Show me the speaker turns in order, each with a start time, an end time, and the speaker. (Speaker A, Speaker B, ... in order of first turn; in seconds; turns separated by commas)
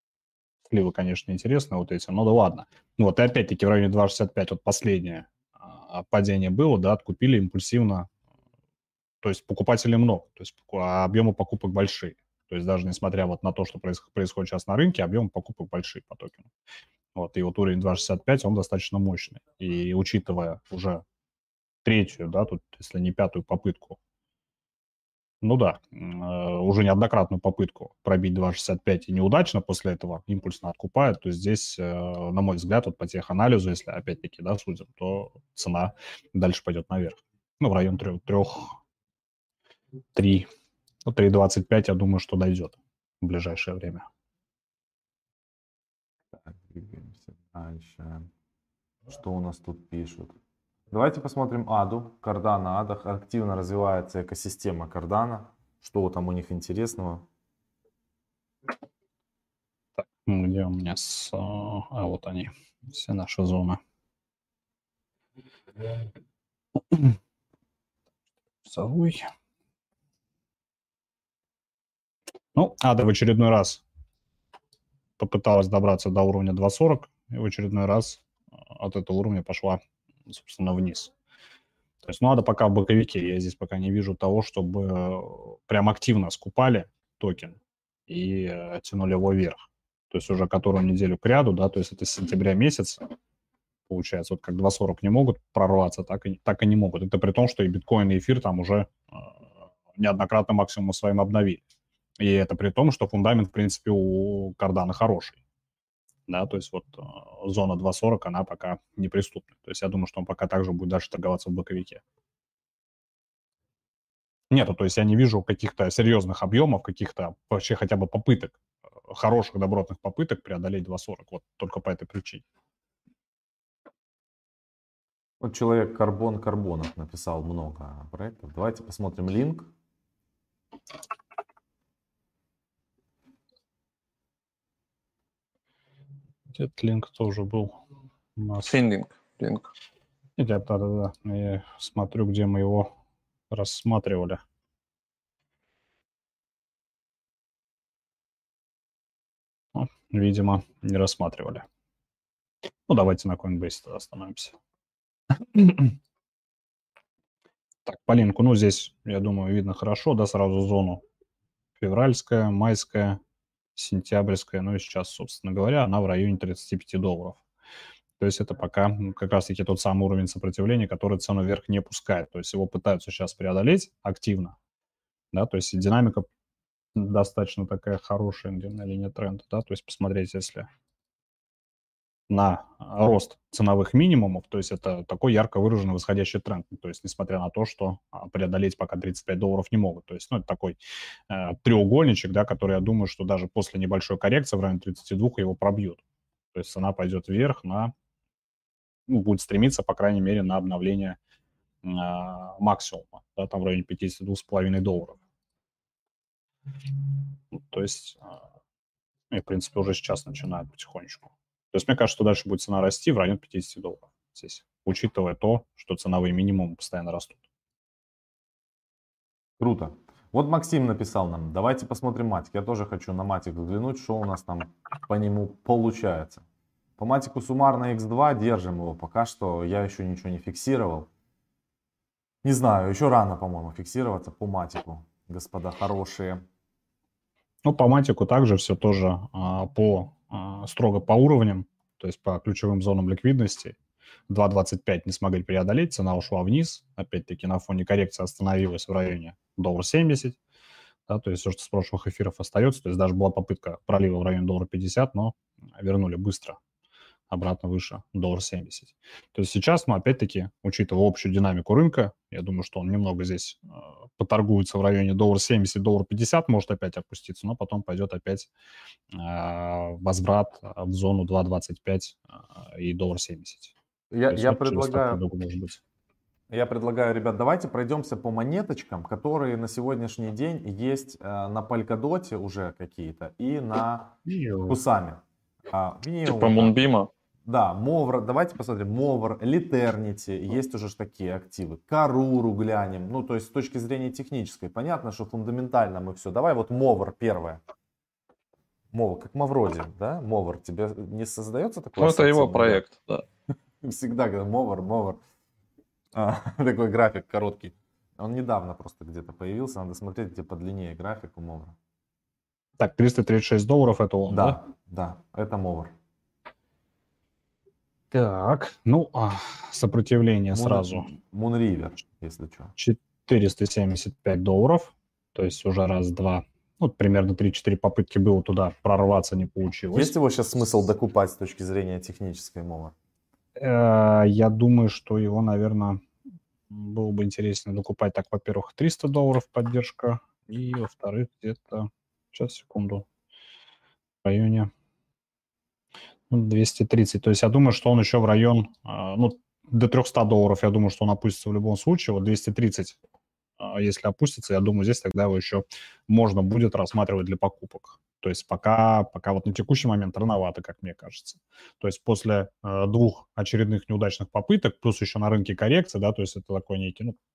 Speaker A: 0.7-8.1, Speaker A: 9.2-16.5, Speaker A: 17.1-21.0, Speaker A: 21.8-24.0, Speaker A: 25.4-38.8, Speaker A: 40.1-40.5, Speaker A: 41.0-44.0, Speaker B: 46.4-48.3, Speaker B: 49.1-50.3, Speaker B: 50.9-57.2, Speaker A: 60.0-63.8, Speaker A: 68.6-69.2, Speaker A: 72.5-73.8, Speaker A: 75.2-81.1, Speaker A: 82.0-93.0, Speaker A: 93.9-99.3, Speaker A: 100.0-101.6, Speaker A: 102.2-105.4, Speaker A: 106.3-112.0, Speaker A: 114.5-118.6, Speaker A: 119.1-122.4, Speaker B: 125.4-129.7, Speaker A: 136.5-137.8, Speaker A: 138.4-138.7, Speaker C: 138.6-139.7, Speaker A: 140.4-142.9, Speaker A: 143.5-144.4, Speaker A: 149.7-151.6, Speaker A: 152.9-154.6, Speaker A: 155.3-156.0, Speaker A: 157.8-161.0, Speaker A: 161.8-163.2, Speaker A: 163.7-167.4, Speaker A: 168.2-174.5, Speaker A: 175.3-176.2, Speaker A: 176.9-180.7, Speaker A: 182.3-196.0, Speaker A: 196.5-197.9, Speaker A: 199.1-201.2, Speaker A: 201.8-205.2, Speaker A: 207.5-208.3, Speaker A: 209.3-217.4, Speaker B: 219.6-226.4, Speaker B: 227.0-231.1, Speaker B: 232.4-236.4, Speaker A: 237.6-243.7, Speaker A: 244.3-250.4, Speaker A: 251.1-256.6, Speaker A: 257.3-268.5, Speaker A: 269.1-273.7, Speaker B: 274.1-275.2, Speaker A: 274.3-275.8, Speaker B: 276.5-286.7, Speaker A: 284.2-284.8, Speaker C: 286.2-287.1, Speaker B: 287.4-297.6, Speaker B: 298.9-302.8, Speaker C: 302.0-303.2, Speaker B: 303.8-305.2, Speaker B: 306.1-311.7, Speaker A: 312.8-314.6, Speaker B: 314.3-315.9, Speaker A: 318.1-321.1, Speaker B: 320.5-322.7, Speaker A: 322.8-330.1, Speaker B: 329.9-332.9, Speaker A: 333.6-336.0, Speaker A: 336.7-343.1, Speaker A: 344.2-344.7, Speaker A: 346.3-353.0, Speaker A: 353.6-367.2